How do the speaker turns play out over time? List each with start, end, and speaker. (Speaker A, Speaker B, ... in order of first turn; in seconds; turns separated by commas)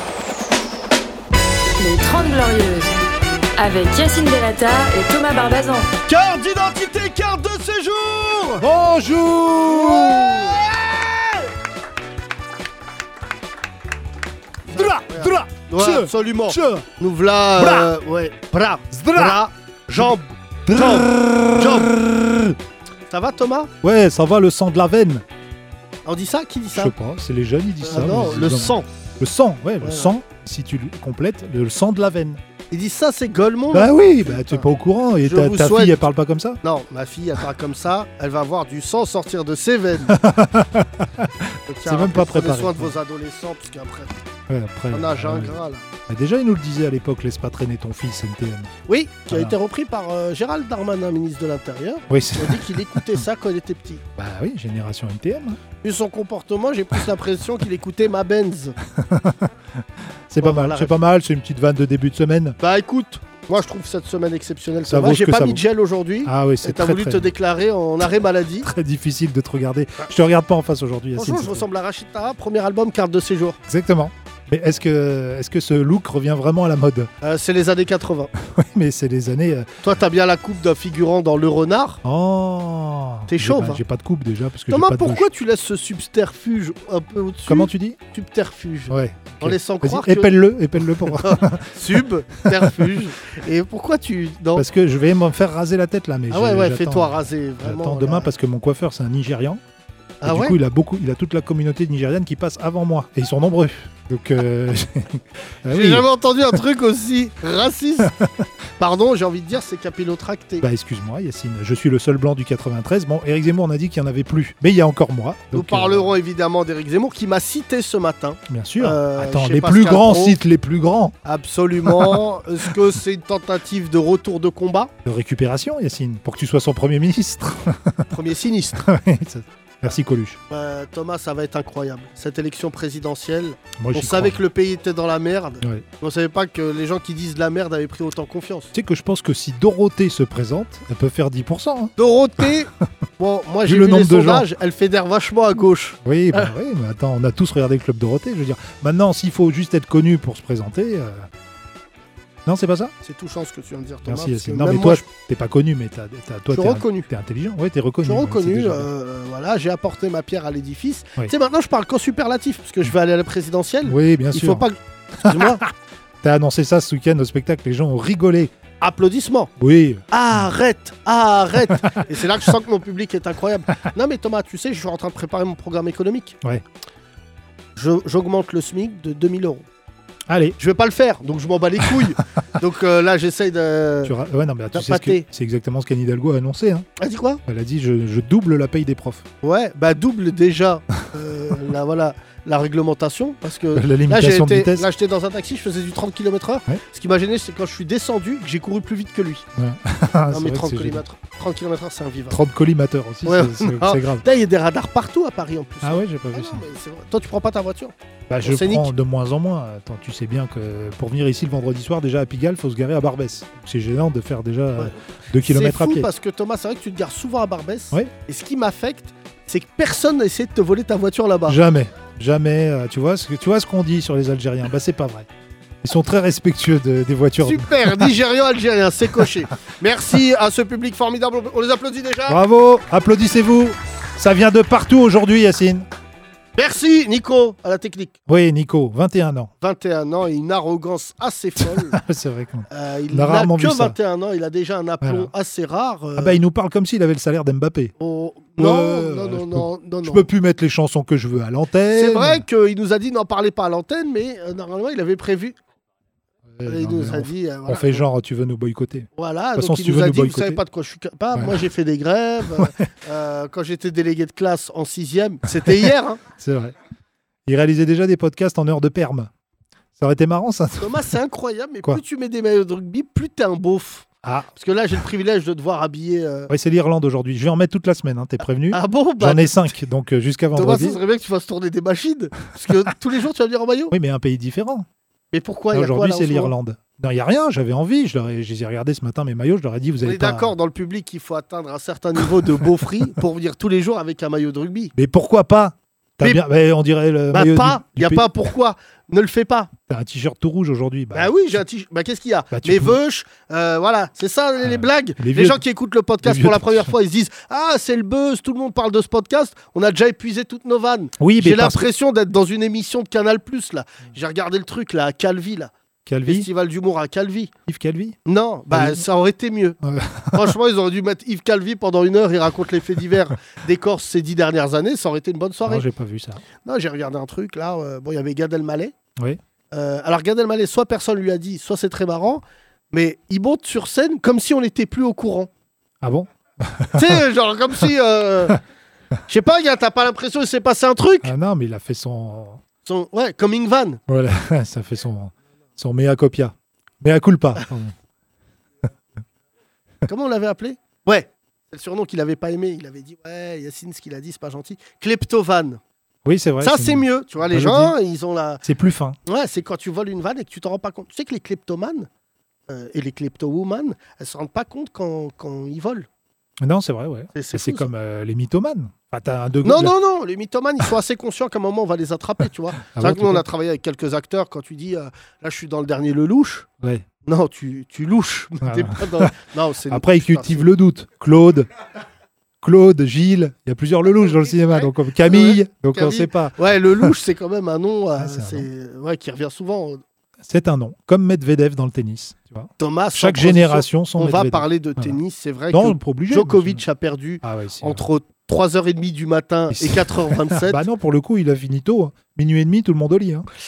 Speaker A: 1.8-2.9, Speaker A: 3.6-5.9, Speaker B: 6.1-8.7, Speaker C: 8.6-10.8, Speaker B: 9.6-11.3, Speaker B: 14.7-22.0, Speaker C: 14.7-16.9, Speaker C: 17.6-17.9, Speaker C: 18.9-19.4, Speaker C: 20.7-22.5, Speaker B: 23.1-23.7, Speaker C: 23.8-25.2, Speaker B: 26.1-26.9, Speaker C: 26.7-32.4, Speaker B: 27.8-28.9, Speaker B: 29.8-30.1, Speaker B: 32.7-34.7, Speaker C: 33.7-36.6, Speaker B: 35.2-36.0, Speaker B: 36.6-40.2, Speaker C: 40.1-43.0, Speaker B: 41.7-44.2, Speaker C: 44.5-48.7, Speaker B: 44.9-45.9, Speaker B: 48.9-54.0, Speaker C: 49.3-49.5, Speaker C: 52.1-53.2, Speaker C: 54.2-55.6, Speaker B: 55.8-58.8, Speaker C: 58.9-62.6, Speaker B: 60.4-61.0, Speaker B: 62.6-68.7, Speaker C: 64.9-65.6, Speaker C: 66.2-67.3, Speaker C: 68.6-71.7, Speaker B: 71.2-73.6, Speaker C: 73.7-77.1, Speaker B: 77.2-78.3, Speaker C: 78.4-79.7, Speaker B: 79.8-82.0, Speaker C: 82.0-85.2, Speaker B: 83.3-83.8, Speaker B: 84.7-90.4, Speaker C: 87.5-88.0, Speaker C: 88.9-93.0, Speaker B: 91.0-94.7, Speaker C: 94.6-99.6, Speaker B: 96.3-98.3, Speaker B: 100.2-100.6, Speaker C: 100.2-106.6, Speaker B: 105.7-108.1, Speaker C: 108.0-108.5, Speaker B: 108.8-110.7, Speaker C: 110.6-116.1, Speaker B: 115.5-120.4, Speaker C: 118.5-121.2, Speaker B: 121.2-124.9, Speaker C: 121.8-122.2, Speaker C: 125.0-128.1, Speaker B: 128.1-128.9, Speaker C: 128.8-130.4, Speaker B: 130.5-138.7, Speaker C: 133.8-134.4, Speaker C: 138.7-142.5, Speaker B: 142.0-146.5, Speaker C: 143.7-144.5, Speaker C: 146.0-151.3, Speaker C: 152.5-152.9, Speaker B: 153.0-155.0, Speaker C: 154.1-158.9, Speaker B: 156.5-157.1, Speaker B: 158.1-165.6, Speaker C: 163.8-164.7, Speaker C: 165.2-165.7, Speaker C: 166.2-168.5, Speaker B: 168.8-169.5, Speaker C: 169.6-170.0, Speaker B: 170.1-176.4, Speaker B: 177.8-179.7, Speaker C: 180.3-180.6, Speaker B: 180.6-184.2, Speaker C: 184.1-186.9, Speaker B: 184.7-185.2, Speaker B: 187.0-187.4, Speaker C: 187.5-189.3, Speaker B: 189.4-199.4, Speaker C: 193.7-194.9, Speaker C: 199.6-201.0, Speaker B: 200.3-202.4, Speaker C: 202.3-204.2, Speaker B: 203.2-208.9, Speaker C: 205.8-206.6, Speaker C: 208.3-216.1, Speaker B: 214.8-221.6, Speaker C: 221.5-225.3, Speaker C: 225.8-228.1, Speaker B: 227.4-232.4, Speaker C: 232.3-235.9, Speaker B: 236.6-238.2, Speaker C: 238.3-239.5, Speaker B: 239.6-242.0, Speaker C: 241.6-244.0, Speaker B: 242.7-246.4, Speaker C: 245.0-245.3, Speaker C: 246.2-247.9, Speaker B: 248.0-250.2, Speaker C: 248.6-252.4, Speaker B: 251.9-255.6, Speaker C: 256.6-260.6, Speaker B: 256.6-258.0, Speaker B: 259.2-266.2, Speaker C: 261.3-261.6, Speaker C: 265.6-266.8, Speaker C: 267.5-269.3, Speaker C: 270.0-271.1, Speaker B: 270.8-276.5, Speaker C: 274.2-274.5, Speaker C: 276.5-281.0, Speaker B: 278.7-279.6, Speaker B: 280.6-283.9, Speaker C: 283.9-284.9, Speaker B: 285.3-286.5, Speaker C: 285.7-290.5, Speaker B: 290.0-294.9, Speaker C: 294.9-298.3, Speaker B: 297.3-299.7, Speaker C: 299.9-301.4, Speaker B: 301.1-315.7, Speaker C: 302.5-303.0, Speaker C: 304.6-305.6, Speaker C: 306.2-306.9, Speaker C: 311.2-311.9, Speaker C: 316.1-316.5, Speaker B: 316.3-317.5, Speaker C: 317.7-318.2, Speaker B: 318.3-319.8, Speaker C: 318.7-319.0, Speaker C: 319.8-320.6, Speaker B: 320.3-325.9, Speaker C: 325.6-326.4, Speaker B: 326.6-328.9, Speaker B: 329.7-335.5, Speaker C: 336.0-337.2, Speaker B: 336.9-338.6, Speaker B: 339.3-341.3, Speaker C: 341.2-342.6, Speaker B: 342.9-344.0, Speaker C: 344.1-347.9, Speaker B: 350.1-355.8, Speaker C: 356.2-357.9, Speaker B: 356.6-358.6, Speaker C: 358.6-359.2, Speaker B: 359.3-362.1, Speaker B: 362.7-366.1, Speaker C: 366.6-369.9, Speaker B: 367.4-367.9, Speaker B: 369.6-376.7, Speaker C: 372.9-373.4, Speaker B: 377.2-380.7, Speaker C: 378.6-379.3, Speaker C: 379.9-381.7, Speaker C: 382.6-387.1, Speaker B: 384.1-390.0, Speaker C: 388.2-388.7, Speaker C: 390.4-395.2, Speaker B: 392.8-400.8, Speaker C: 395.7-396.8, Speaker C: 397.4-398.0, Speaker C: 399.7-403.5